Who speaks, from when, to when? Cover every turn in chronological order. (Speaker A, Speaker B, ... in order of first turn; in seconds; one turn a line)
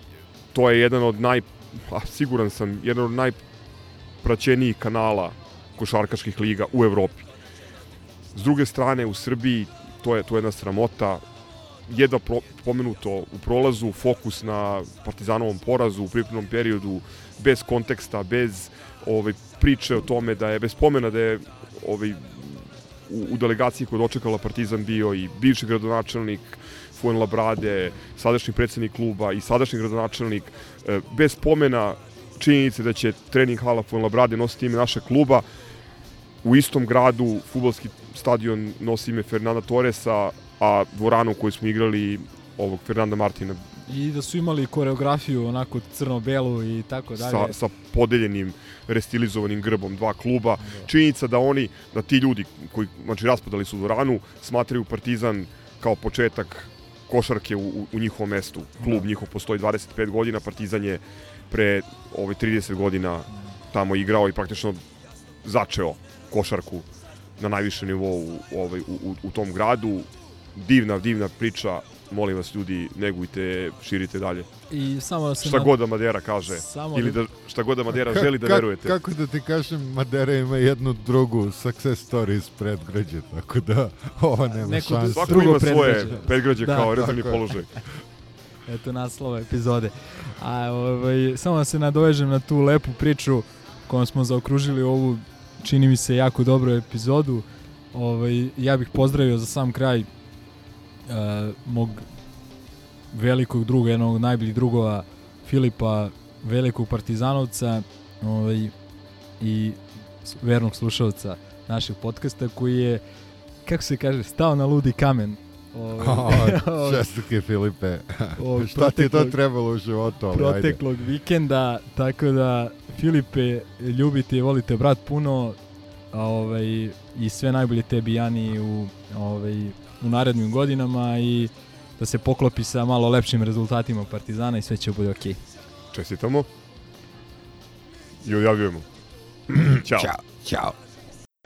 Speaker A: 0.5-3.4
Speaker A: 4.2-7.3
Speaker A: 8.3-11.2
Speaker A: 11.9-35.5
Speaker A: 36.4-43.6
Speaker B: 43.9-47.6
Speaker A: 47.2-64.8
Speaker A: 65.4-66.9
Speaker A: 67.4-74.5
Speaker B: 74.7-75.7
Speaker A: 75.4-79.0
Speaker B: 76.5-77.2
Speaker C: 77.9-87.5
Speaker B: 84.6-86.9
Speaker A: 85.2-87.7
Speaker B: 88.7-100.1
Speaker B: 101.1-102.0
Speaker B: 103.1-108.7
Speaker B: 109.4-113.0
Speaker B: 113.7-117.1
Speaker C: 116.0-120.8
Speaker B: 118.4-119.4
Speaker B: 120.3-125.6
Speaker B: 126.1-135.4
Speaker A: 135.9-136.5
Speaker A: 138.2-138.8
Speaker C: 139.5-140.8
Speaker A: 139.5-140.1